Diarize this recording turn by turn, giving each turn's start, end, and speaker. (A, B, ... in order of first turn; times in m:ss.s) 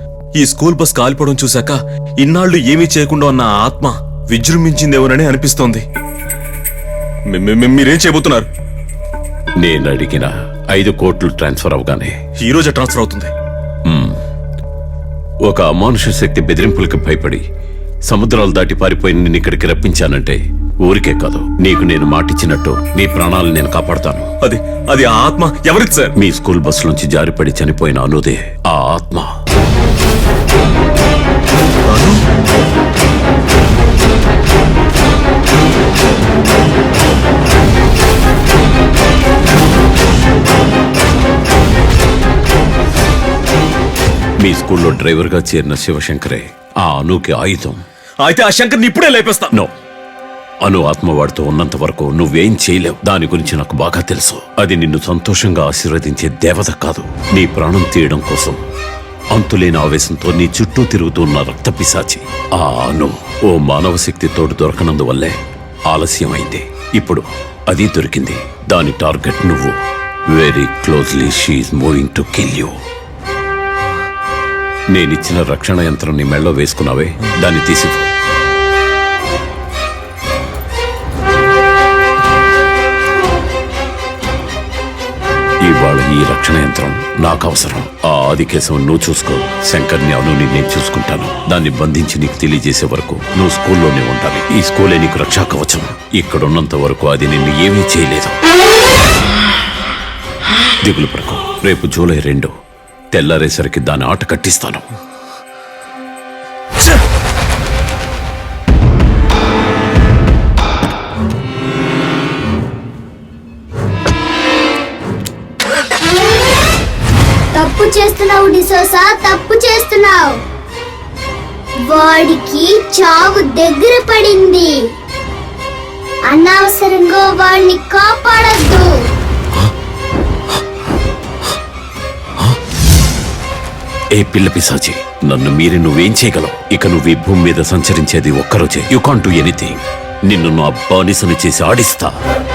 0:00.4-0:05.8 A
0:07.3-0:08.5 A
0:09.6-0:12.1 B
0:12.4-0:13.3 A
0:13.8-0:14.2 B
0:15.5-0:17.4 B
0:18.1-0:24.3 B
0:24.4-0:26.1 A
0:26.2-0:29.3 B
0:31.8-0:32.2 A
0:44.4-0:47.8 B
0:48.2-0:49.5 A
0:50.6-0:58.6 B
0:59.3-1:05.4 B
1:05.9-1:09.8 B
1:10.3-1:12.8 B
1:14.9-1:18.1 B
1:25.6-1:38.4 B
1:40.8-1:42.5 B
1:43.1-1:44.9 B
1:57.5-2:00.4 C
2:01.9-2:04.8 C
2:06.3-2:08.9 C
2:14.1-2:22.1 B